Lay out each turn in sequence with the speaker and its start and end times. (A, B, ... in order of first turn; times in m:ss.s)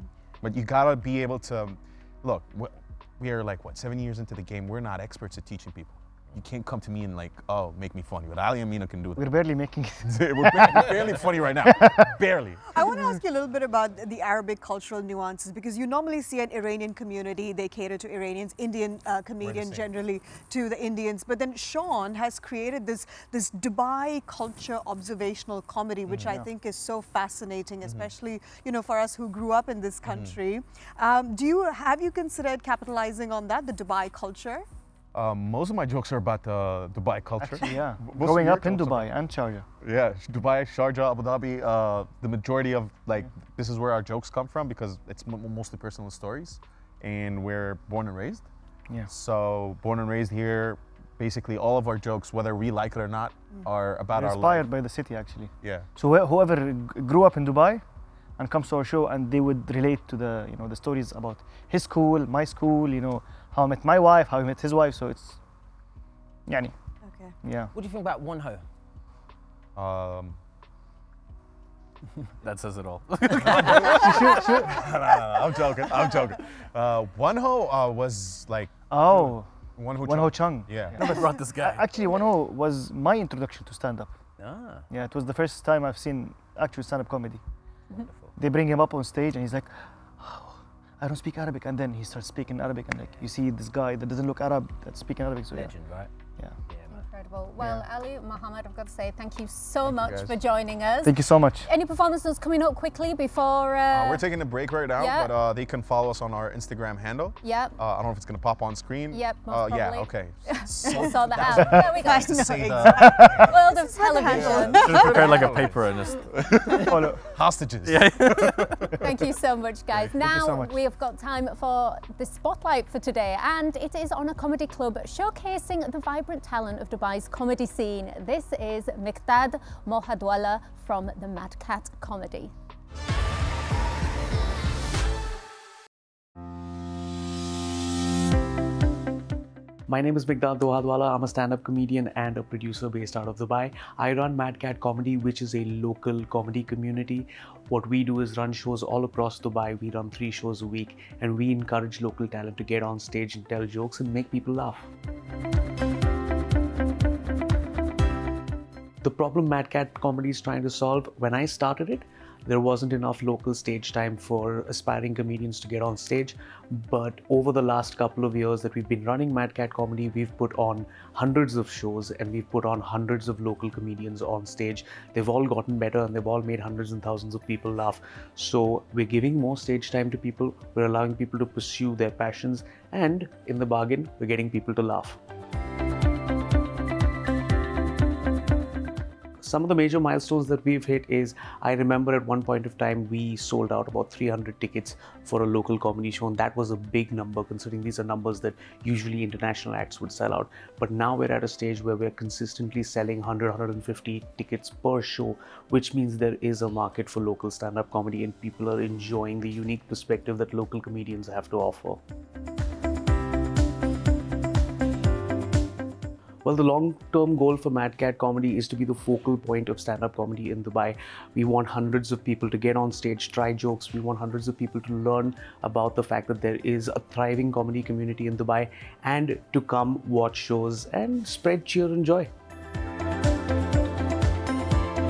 0:00.4-0:09.3 A
0:09.2-0:12.2 B
0:10.0-0:12.6 A
0:12.7-0:34.6 C
0:19.4-0:19.9 A
0:26.1-0:26.4 A
0:27.8-0:28.1 A
0:30.0-0:30.4 A
0:35.1-0:39.1 A
0:37.4-0:39.6 B
0:39.8-0:48.5 A
0:49.1-0:54.7 A
0:54.1-0:57.8 B
0:55.6-0:55.9 A
0:58.4-1:05.4 B
1:06.5-1:06.7 B
1:07.0-1:07.3 C
1:07.4-1:07.7 B
1:07.7-1:08.6 D
1:09.8-1:10.4 A
1:12.4-1:14.4 E
1:13.4-1:21.0 A
1:13.9-1:14.8 B
1:18.9-1:24.1 B
1:21.0-1:21.8 E
1:24.4-1:24.9 D
1:24.9-1:27.4 B
1:28.0-1:28.3 D
1:28.4-1:35.7 B
1:35.5-1:36.1 D
1:36.7-1:37.0 D
1:36.9-1:44.3 F
1:37.6-1:37.8 B
1:39.8-1:40.4 A
1:41.0-1:41.7 B
1:43.9-1:53.6 A
1:44.9-1:45.3 F
1:47.4-1:47.8 F
1:49.1-1:52.8 F
1:50.8-1:51.2 C
1:51.5-1:51.9 B
1:52.0-1:55.4 C
1:52.8-1:53.5 B
1:53.4-1:55.0 F
1:54.2-1:54.7 A
1:54.6-1:57.0 E
1:55.2-1:59.2 A
1:56.8-1:57.2 B
1:57.8-1:58.9 E
1:59.0-2:12.5 F
2:00.2-2:00.8 B
2:19.9-2:34.9 G
2:39.0-3:05.2 G
3:09.4-3:32.0 G
3:36.4-3:52.3 G